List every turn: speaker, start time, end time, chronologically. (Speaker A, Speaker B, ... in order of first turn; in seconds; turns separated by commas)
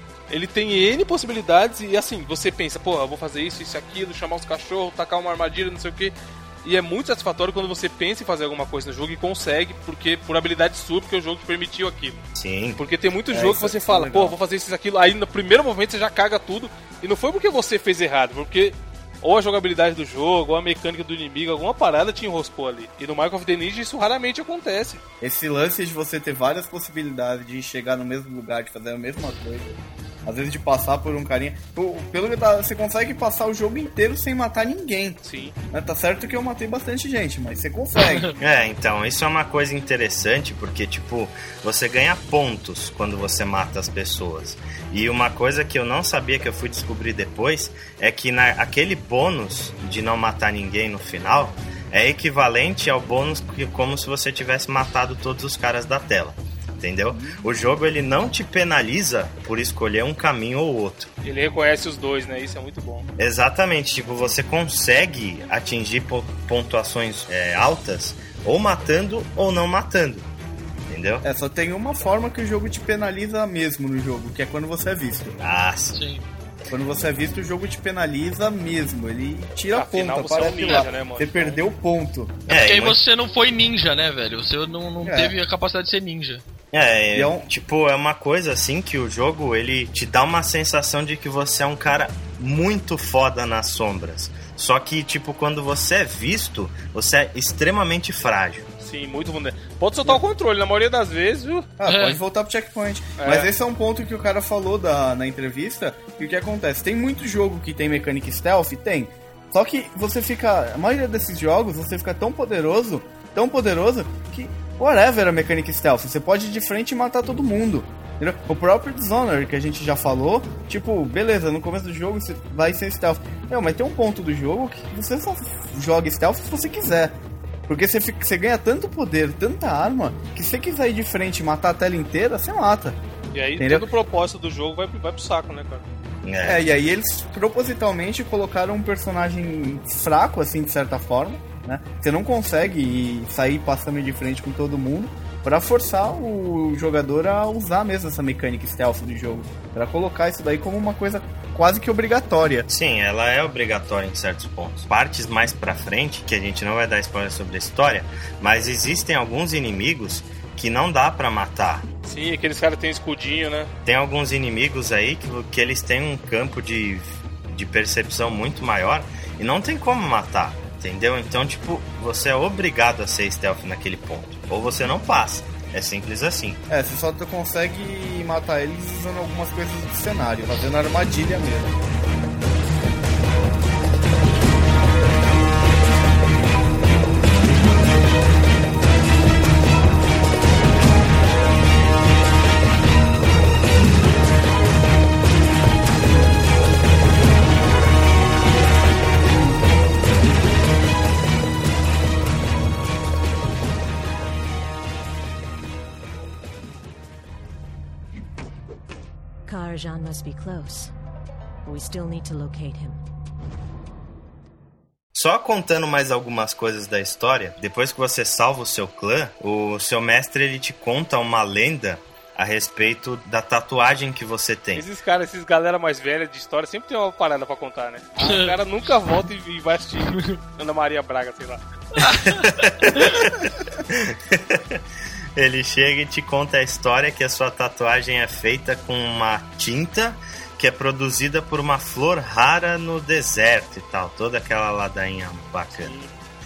Speaker A: 0.3-12.2, Speaker B: 12.3-12.8, Speaker A: 12.8-25.0, Speaker C: 13.3-14.4, Speaker C: 25.2-35.2, Speaker A: 35.2-35.5, Speaker C: 35.7-38.4, Speaker B: 38.4-61.1, Speaker C: 57.1-57.5, Speaker A: 61.2-63.1, Speaker B: 63.2-70.3, Speaker B: 70.9-71.2, Speaker C: 71.2-75.4, Speaker B: 75.4-76.0, Speaker D: 75.9-76.3, Speaker C: 76.7-82.4, Speaker A: 79.7-81.6, Speaker B: 82.5-83.0, Speaker D: 82.5-86.4, Speaker C: 85.0-85.3, Speaker B: 86.7-98.7, Speaker C: 87.1-87.5, Speaker A: 98.8-101.7, Speaker C: 101.8-133.0, Speaker D: 101.9-102.2, Speaker A: 103.2-103.5, Speaker A: 133.3-135.9, Speaker C: 133.6-133.9, Speaker B: 136.2-136.7, Speaker C: 136.4-152.7, Speaker B: 152.7-161.8, Speaker A: 162.0-163.7, Speaker B: 163.8-176.6, Speaker C: 176.7-181.7, Speaker E: 209.5-210.9, Speaker E: 211.7-213.0, Speaker B: 215.1-224.9, Speaker A: 224.8-231.6, Speaker D: 228.2-228.6, Speaker D: 232.0-232.4, Speaker B: 232.2-234.8, Speaker B: 235.4-245.9, Speaker A: 245.8-246.1